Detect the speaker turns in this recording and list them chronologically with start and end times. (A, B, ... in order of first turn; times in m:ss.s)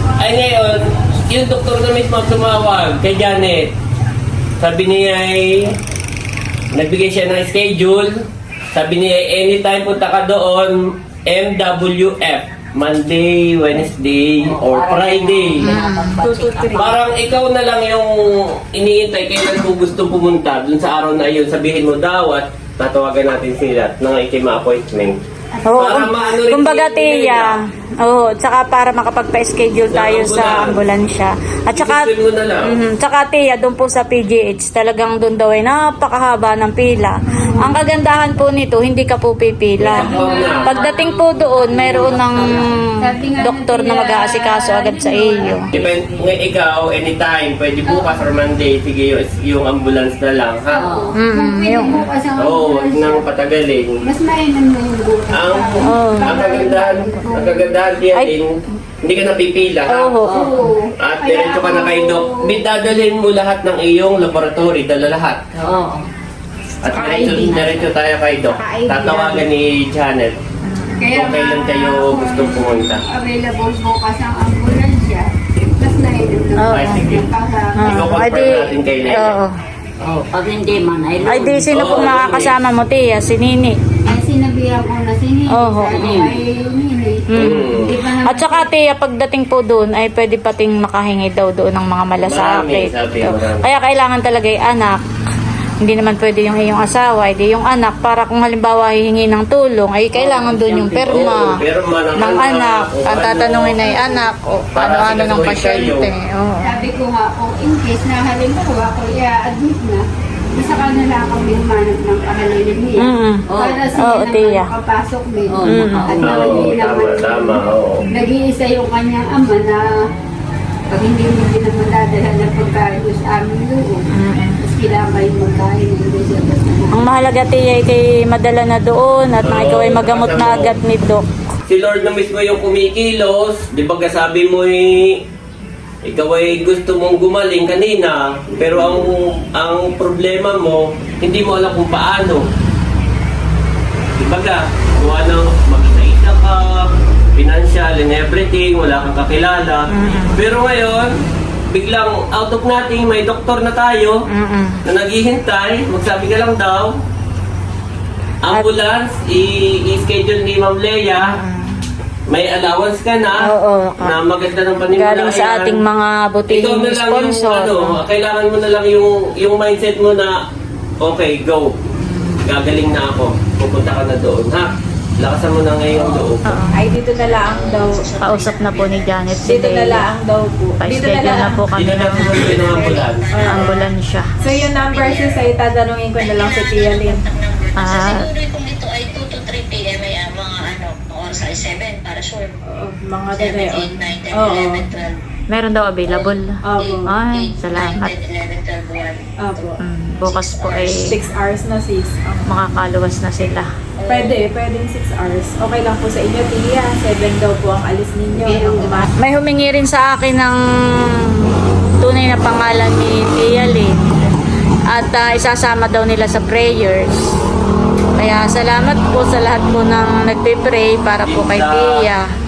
0:00.2-0:03.7 A
0:04.6-0:05.8 A
0:06.7-0:08.1 A
0:08.7-0:15.8 A
0:14.4-0:16.9 B
0:15.6-0:16.2 C
0:16.2-0:16.9 D
0:16.7-0:18.2 A
0:18.7-0:25.2 A
0:25.6-0:32.1 C
0:25.7-0:27.6 A
0:29.9-0:30.8 A
0:31.7-0:32.7 A
0:32.6-0:42.8 C
0:39.8-0:40.8 A
0:40.0-0:40.8 E
0:40.2-0:42.6 B
0:41.8-0:46.2 E
0:43.4-0:45.7 C
0:45.7-0:50.9 A
0:47.9-0:48.3 E
0:50.8-0:53.3 E
0:50.8-0:51.2 B
0:51.2-0:52.0 C
0:52.4-0:54.0 A
0:54.0-0:57.8 E
0:55.3-1:00.2 A
0:55.8-0:56.4 C
0:59.9-1:00.4 C
1:00.3-1:00.7 B
1:00.3-1:02.6 E
1:01.0-1:05.4 A
1:05.6-1:06.0 B
1:06.8-1:10.4 A
1:07.0-1:07.6 E
1:07.0-1:07.7 B
1:08.6-1:09.4 D
1:10.6-1:11.1 C
1:11.0-1:18.5 E
1:11.1-1:13.0 A
1:16.6-1:17.1 C
1:16.6-1:17.3 A
1:17.8-1:19.5 C
1:17.8-1:19.4 A
1:20.0-1:22.1 B
1:21.3-1:23.8 C
1:21.7-1:22.6 A
1:24.1-1:28.7 E
1:25.5-1:26.0 C
1:25.9-1:26.4 B
1:27.3-1:35.0 C
1:27.4-1:27.9 A
1:32.3-1:33.7 A
1:35.8-1:41.6 C
1:40.2-1:41.0 B
1:40.7-1:43.9 A
1:42.2-1:46.7 C
1:44.8-1:46.1 A
1:46.6-1:59.9 E
1:53.0-1:53.4 C
1:53.5-1:53.8 B
1:54.0-1:54.7 C
1:55.5-1:56.6 B
1:55.7-1:56.1 C
1:56.1-1:58.0 A
2:00.9-2:04.1 E
2:04.1-2:04.6 C
2:04.6-2:06.9 E
2:06.9-2:11.3 C
2:09.4-2:10.7 A
2:11.7-2:15.2 A
2:16.0-2:22.5 A
2:24.2-2:31.1 A
2:29.9-2:30.4 C
2:31.7-2:34.2 A
2:34.3-2:34.8 C
2:34.8-2:36.9 A
2:38.4-2:41.3 A
2:41.2-2:41.8 C
2:42.3-2:45.8 A
2:43.4-2:44.2 C
2:44.9-2:48.0 C
2:46.5-2:50.4 A
2:51.0-2:51.7 A
2:52.0-2:52.4 C
2:52.4-2:56.6 A
2:56.4-2:56.9 C
2:56.7-2:58.1 D
2:57.0-2:59.3 F
2:58.2-3:00.0 C
2:59.5-3:01.7 D
3:00.8-3:02.3 C
3:01.8-3:03.5 A
3:02.5-3:03.9 F
3:02.8-3:03.8 D
3:03.4-3:04.3 C
3:04.4-3:07.2 D
3:04.4-3:05.6 F
3:06.2-3:12.6 F
3:07.8-3:08.3 C
3:12.7-3:14.9 D
3:13.3-3:15.2 F
3:15.5-3:18.1 C
3:16.1-3:21.1 F
3:16.7-3:17.1 D
3:19.4-3:19.8 D
3:19.8-3:21.2 C
3:21.0-3:22.5 D
3:22.5-3:23.7 C
3:24.0-3:24.4 F
3:24.1-3:29.1 D
3:28.4-3:29.1 E
3:29.2-3:30.6 C
3:32.0-3:34.1 C
3:34.9-3:37.3 C
3:38.2-3:42.2 C
3:41.2-3:42.1 A